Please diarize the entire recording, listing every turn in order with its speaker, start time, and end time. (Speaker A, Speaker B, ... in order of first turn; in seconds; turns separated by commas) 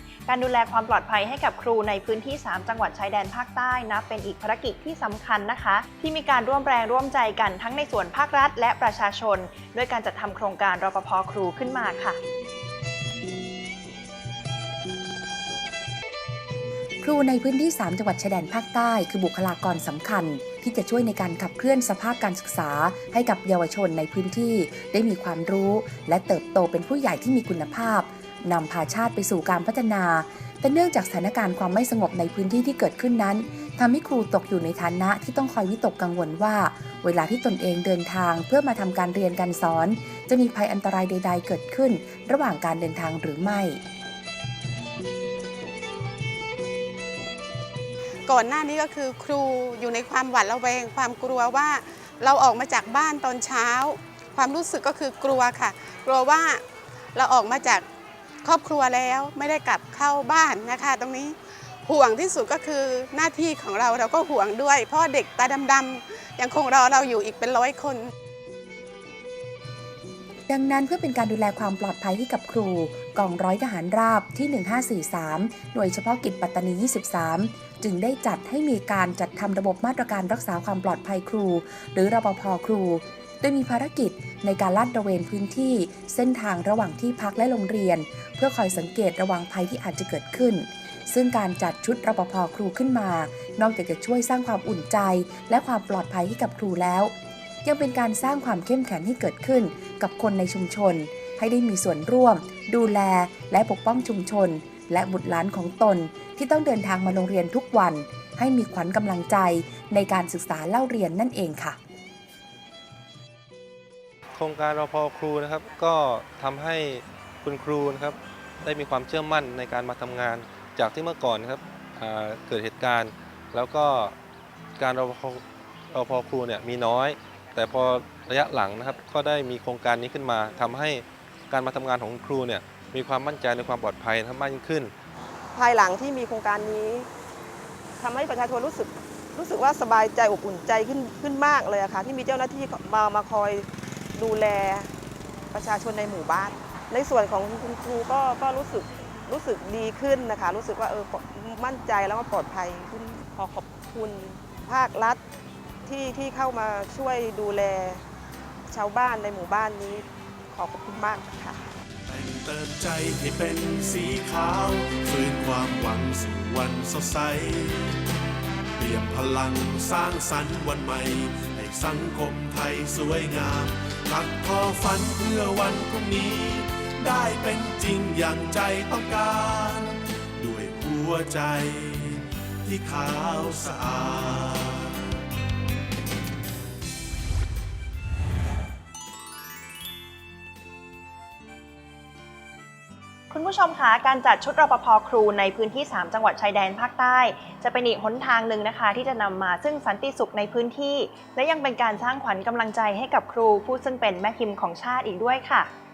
Speaker A: 0.3-12.2, Speaker B: 17.0-43.8, Speaker C: 48.3-56.6, Speaker C: 57.1-57.8, Speaker C: 58.4-68.1, Speaker B: 70.5-97.1, Speaker B: 97.6-111.8, Speaker D: 114.3-124.2, Speaker D: 124.8-134.9, Speaker E: 135.5-137.1, Speaker E: 138.0-144.9, Speaker E: 145.5-155.2, Speaker E: 155.8-158.0, Speaker E: 158.7-161.7, Speaker F: 162.1-168.0, Speaker F: 168.8-185.0, Speaker A: 193.3-205.7